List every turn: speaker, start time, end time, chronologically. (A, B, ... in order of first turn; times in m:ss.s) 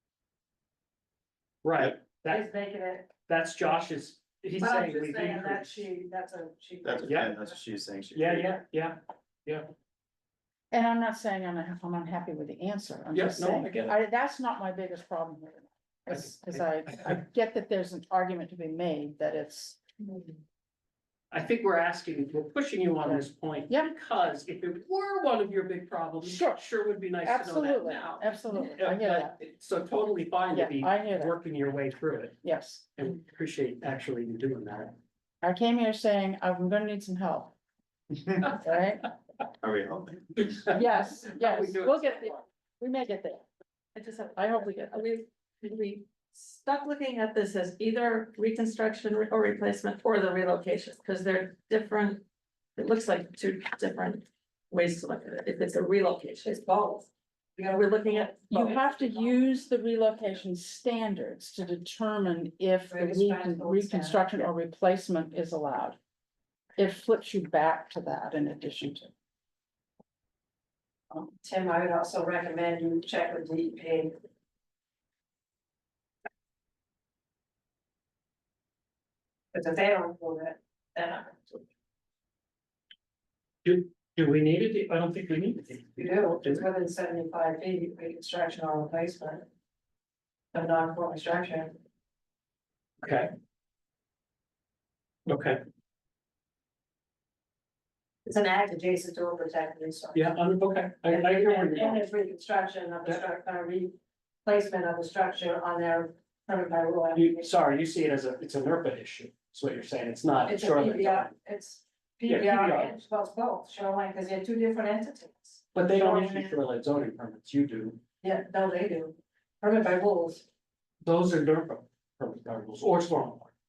0:01.6-0:02.4 A
0:02.2-0:03.1 B
0:03.2-0:05.9 A
0:04.6-0:07.6 B
0:06.8-0:08.6 C
0:07.0-0:07.3 A
0:08.1-0:09.6 A
0:10.7-0:19.8 D
0:13.1-0:14.0 A
0:16.1-0:17.0 A
0:21.3-0:32.4 A
0:23.0-0:23.9 D
0:26.2-0:26.6 D
0:27.2-0:29.3 D
0:30.5-0:31.3 D
0:32.4-0:32.8 D
0:32.9-0:34.9 A
0:35.4-0:37.5 D
0:38.4-0:39.1 D
0:39.6-0:40.5 C
0:40.4-0:42.4 A
0:40.7-0:43.4 D
0:43.9-0:52.2 E
0:44.4-0:45.0 D
0:52.8-0:57.1 E
0:57.6-0:59.3 B
0:57.7-0:58.4 E
0:58.5-1:06.0 D
1:02.9-1:04.5 B
1:06.8-1:09.1 D
1:11.4-1:14.2 B
1:19.5-1:21.6 B
1:23.6-1:26.6 A
1:26.0-1:29.4 B
1:30.5-1:31.7 B
1:33.0-1:33.3 A
1:35.2-1:35.6 A
1:38.2-1:40.3 B
1:40.1-1:42.0 A
1:41.0-1:47.5 B
1:47.1-1:51.3 A
1:50.5-1:56.6 B
1:52.3-1:52.9 A
1:55.7-1:58.0 A
1:58.2-2:00.4 B
2:01.0-2:03.5 A